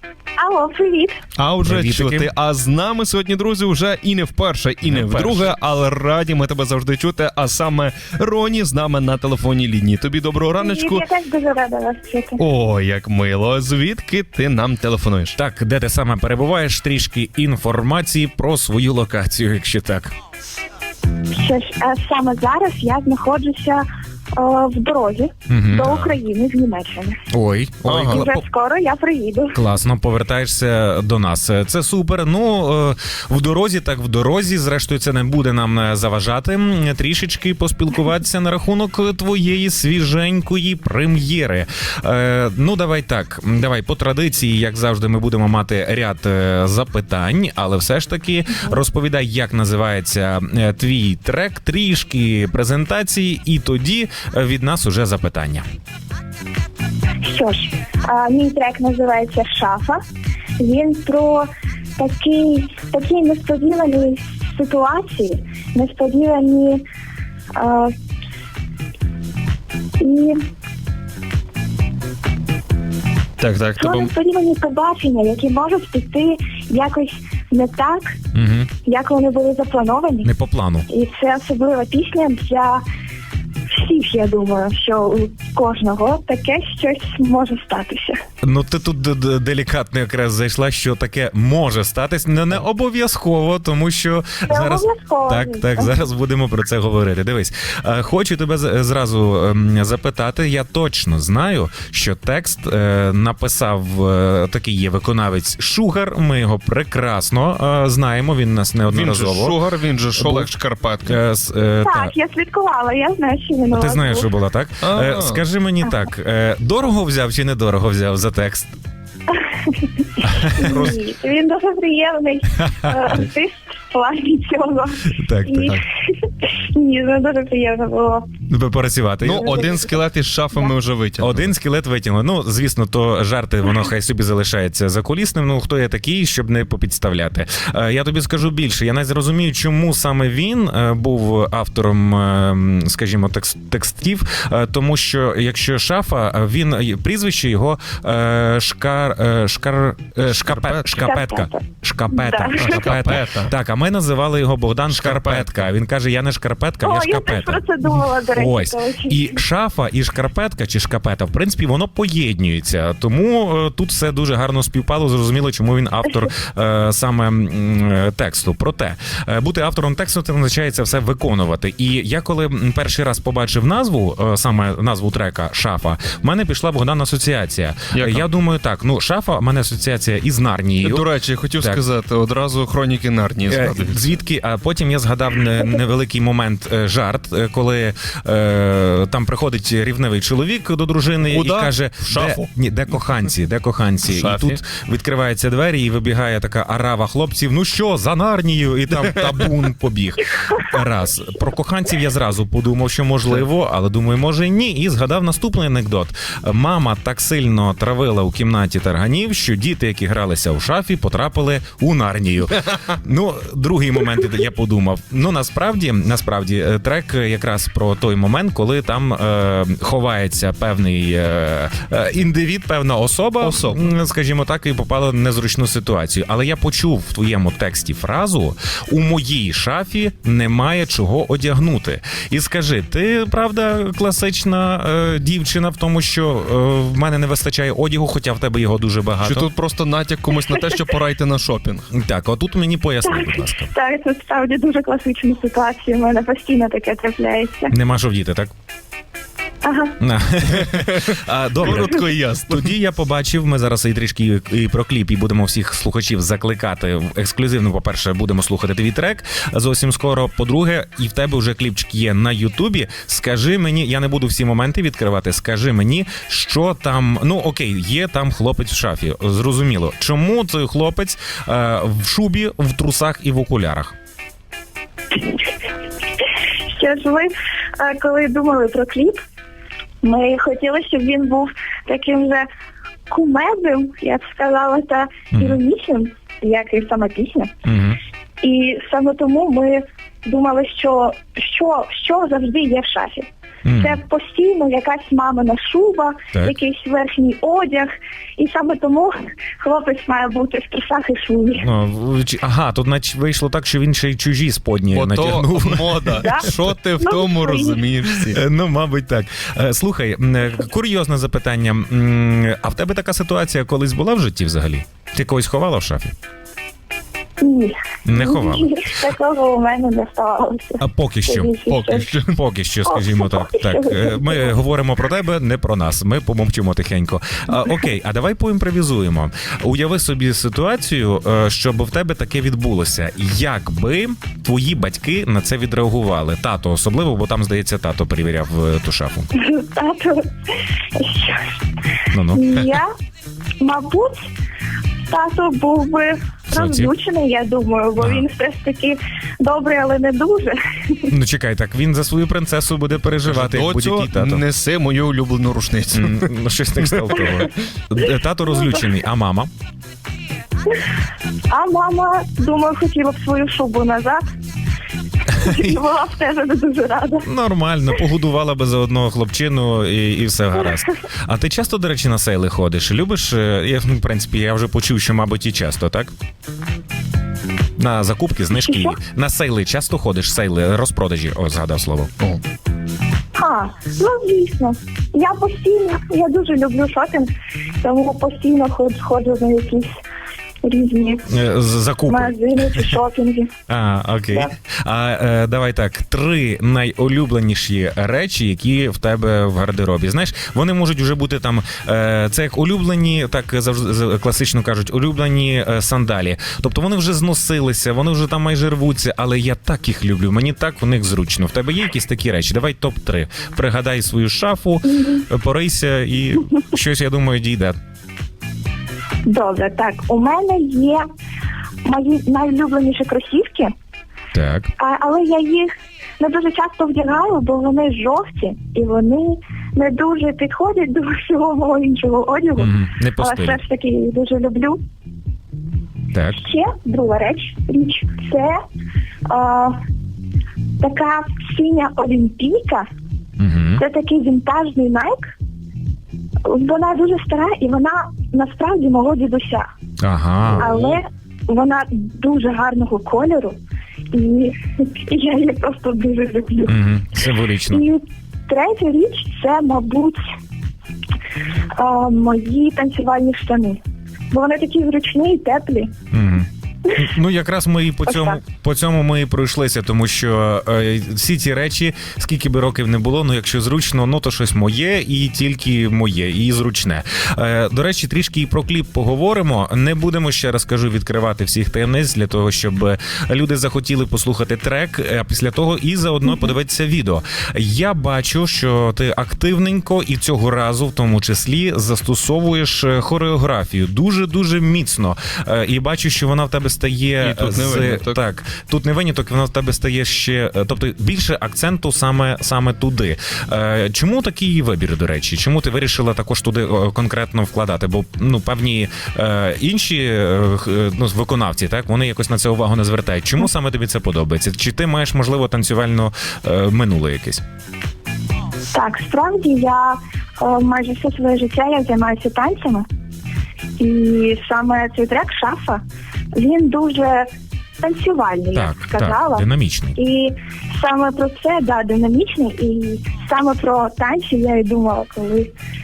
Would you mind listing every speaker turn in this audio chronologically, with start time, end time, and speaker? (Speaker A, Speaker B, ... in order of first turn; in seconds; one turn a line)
Speaker A: 0.4-1.2
Speaker B: 1.4-11.1
Speaker C: 1.6-2.3
Speaker C: 4.8-5.5
Speaker A: 10.6-12.4
Speaker B: 12.4-15.3
Speaker C: 15.3-20.1
Speaker A: 21.3-23.8
Speaker A: 24.4-27.2
Speaker C: 25.5-26.2
Speaker C: 27.3-28.4
Speaker B: 27.9-28.3
Speaker A: 27.9-29.6
Speaker C: 29.5-55.6
Speaker A: 57.2-60.0
Speaker A: 60.6-66.8
Speaker A: 67.5-67.9
Speaker A: 70.0-70.4
Speaker B: 73.4-74.1
Speaker A: 73.8-78.2
Speaker C: 78.3-78.7
Speaker A: 78.8-80.3
Speaker C: 80.2-80.9
Speaker A: 80.9-82.8
Speaker A: 83.7-88.2
Speaker C: 88.4-109.6
Speaker A: 94.5-95.9
Speaker B: 108.9-111.2
Speaker C: 110.2-110.5
Speaker C: 111.1-112.1
Speaker A: 111.8-114.3
Speaker C: 113.7-118.7
Speaker B: 114.8-115.4
Speaker A: 119.3-128.3
Speaker C: 120.2-120.9
Speaker C: 122.7-123.1
Speaker C: 125.1-125.8
Speaker C: 128.5-129.7
Speaker B: 129.2-131.5
Speaker C: 131.2-181.1
Speaker B: 150.4-151.1
Speaker A: 151.0-152.7
Speaker B: 152.5-153.5
Speaker B: 154.9-155.7
Speaker A: 156.8-159.4
Speaker B: 177.9-178.2
Speaker B: 180.8-184.0
Speaker C: 183.5-239.5
Speaker B: 191.3-192.5
Speaker B: 194.1-194.6
Speaker B: 223.4-223.9
Speaker B: 239.2-241.9
Speaker C: 241.9-243.7
Speaker A: 243.0-247.7
Speaker C: 247.7-248.5
Speaker A: 249.6-250.0
Speaker C: 250.0-273.9
Speaker B: 250.7-252.7
Speaker A: 276.7-279.2
Speaker A: 280.0-282.4
Speaker A: 283.1-287.5
Speaker C: 285.3-285.6
Speaker C: 287.6-288.0
Speaker A: 288.4-301.7
Speaker C: 293.6-294.0
Speaker C: 301.6-306.3
Speaker B: 304.9-308.4
Speaker A: 306.2-306.5
Speaker A: 307.0-307.9
Speaker C: 308.3-316.1
Speaker A: 317.4-322.1
Speaker C: 318.1-318.8
Speaker C: 320.8-321.6
Speaker B: 321.7-322.4
Speaker C: 322.3-339.3
Speaker A: 322.9-324.6
Speaker A: 339.4-340.2
Speaker A: 340.9-341.6
Speaker C: 342.1-342.6
Speaker A: 342.3-342.9
Speaker A: 343.6-344.2
Speaker A: 345.1-351.1
Speaker C: 346.5-346.9
Speaker C: 348.0-348.2
Speaker C: 351.1-354.4
Speaker B: 353.2-356.3
Speaker C: 355.9-359.5
Speaker B: 356.9-357.5
Speaker A: 361.5-364.4
Speaker A: 365.3-367.3
Speaker C: 365.4-365.8
Speaker C: 367.2-376.1
Speaker C: 377.8-382.1
Speaker A: 378.6-379.0
Speaker A: 383.4-387.3
Speaker A: 387.8-389.9
Speaker A: 390.6-391.3
Speaker C: 391.3-392.4
Speaker A: 392.1-393.5
Speaker C: 393.7-417.8
Speaker A: 414.9-415.2
Speaker A: 419.2-421.0
Speaker A: 421.8-423.7
Speaker C: 424.3-424.7
Speaker A: 424.8-434.8
Speaker C: 432.6-433.6
Speaker C: 436.1-436.4
Speaker A: 436.4-438.6
Speaker A: 439.3-439.8
Speaker A: 440.8-442.9
Speaker C: 443.4-443.8
Speaker A: 443.8-445.3
Speaker A: 446.4-449.7
Speaker C: 450.0-451.0
Speaker A: 450.6-453.6
Speaker A: 454.1-456.8
Speaker C: 456.7-457.8
Speaker A: 457.7-460.2
Speaker A: 461.8-465.9
Speaker C: 466.1-517.4
Speaker A: 468.1-468.4
Speaker B: 497.2-498.2
Speaker A: 518.7-522.8
Speaker A: 523.8-525.8
Speaker A: 526.3-527.3
Speaker A: 527.8-535.5
Speaker C: 528.5-530.0